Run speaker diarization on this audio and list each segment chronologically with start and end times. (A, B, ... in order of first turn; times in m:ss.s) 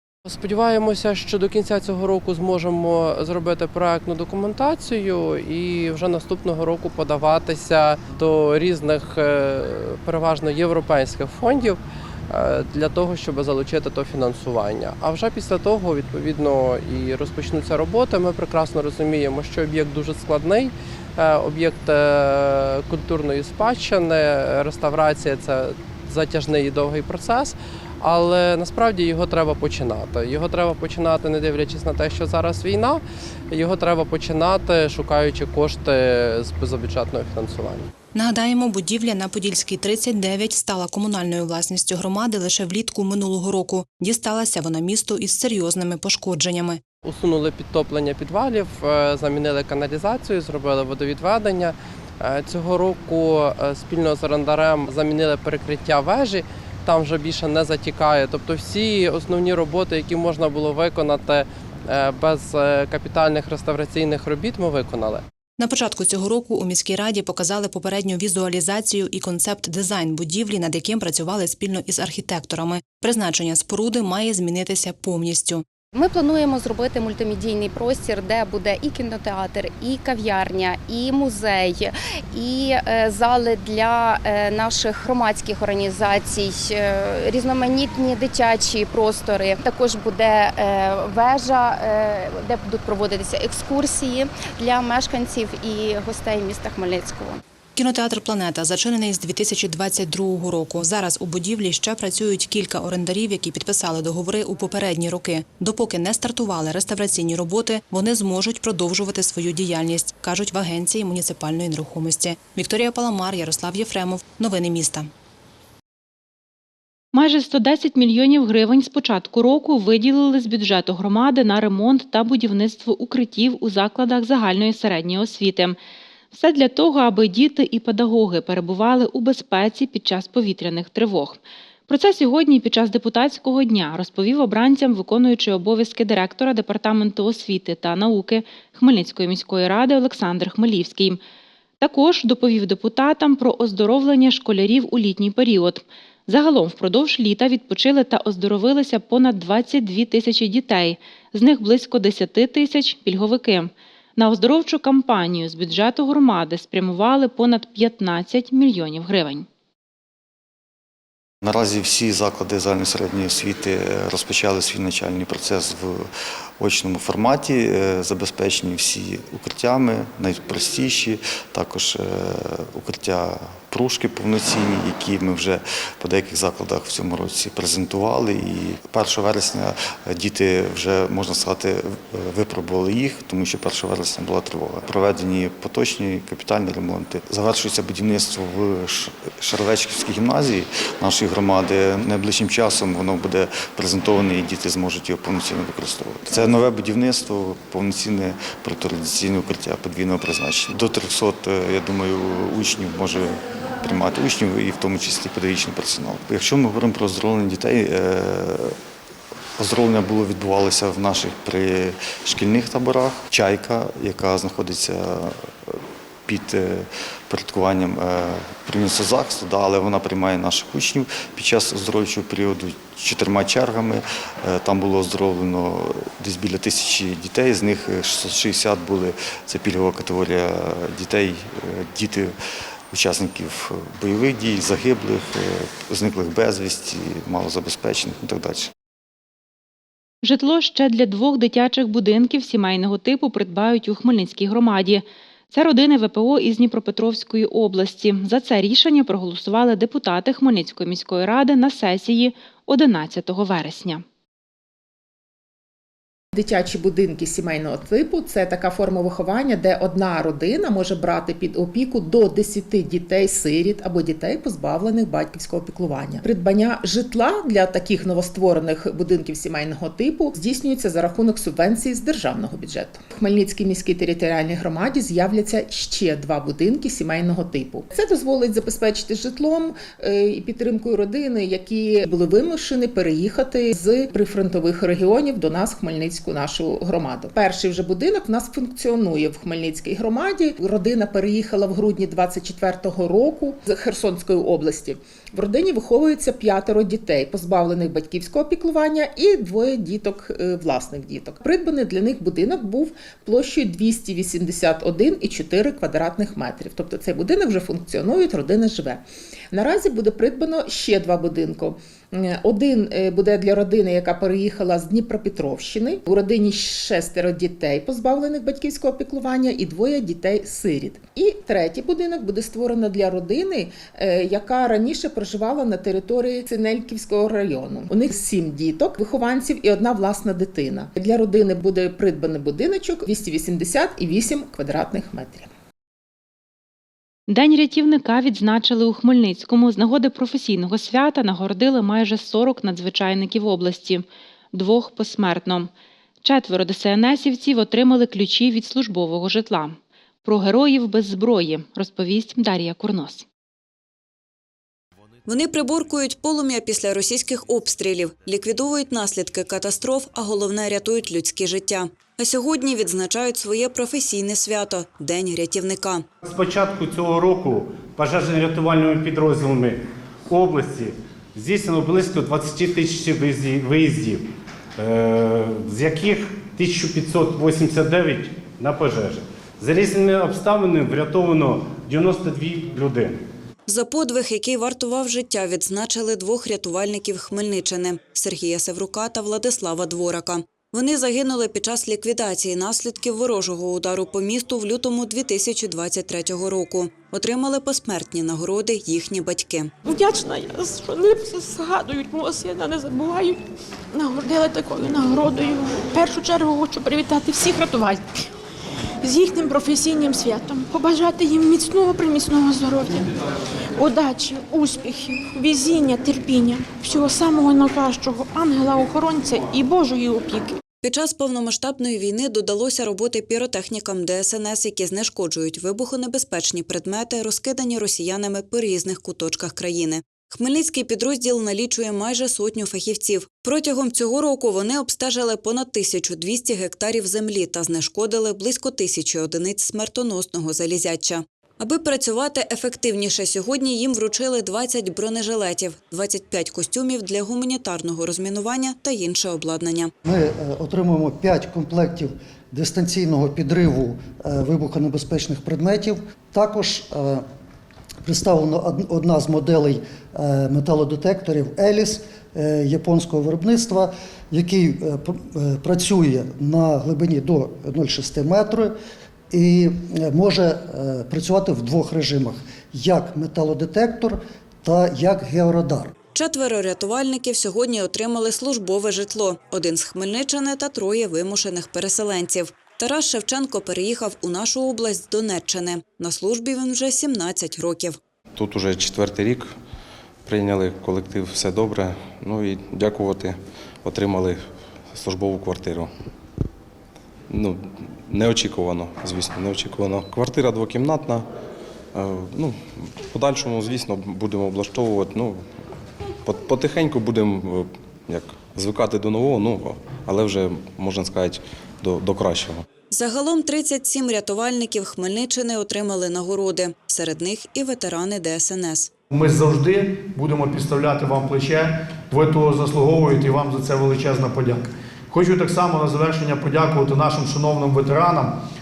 0:00.2-0:37.9 A
0:38.1-0:46.8 B
0:47.0-1:05.2 A
1:05.6-1:15.6 B
1:15.9-1:37.4 C
1:37.8-1:55.1 B
1:57.1-2:05.8 D
2:06.3-2:21.2 D
2:21.8-2:39.5 D
2:41.4-2:46.1 E
2:46.6-3:28.7 E
3:29.6-3:52.3 E
3:52.9-3:58.7 E
4:00.2-4:14.0 D
4:16.3-5:35.5 F
5:37.3-5:45.7 D
5:46.2-5:53.2 D
5:55.2-6:06.0 G
6:06.2-6:09.8 H
6:10.3-6:14.2 H
6:14.8-6:23.1 H
6:23.7-6:39.7 G
6:39.9-6:43.4 I
6:43.9-6:48.2 I
6:49.0-6:53.0 I
6:53.8-7:00.5 I
7:00.8-7:29.9 G
7:30.0-7:37.2 J
7:38.0-7:48.8 J
7:49.3-7:55.9 J
7:56.1-8:08.0 G
8:08.3-8:09.5 K
8:10.2-8:14.4 K
8:14.9-8:15.9 K
8:17.3-8:21.3 K
8:21.9-8:25.4 K
8:26.2-8:32.6 K
8:32.9-8:38.9 G
8:39.2-8:48.3 L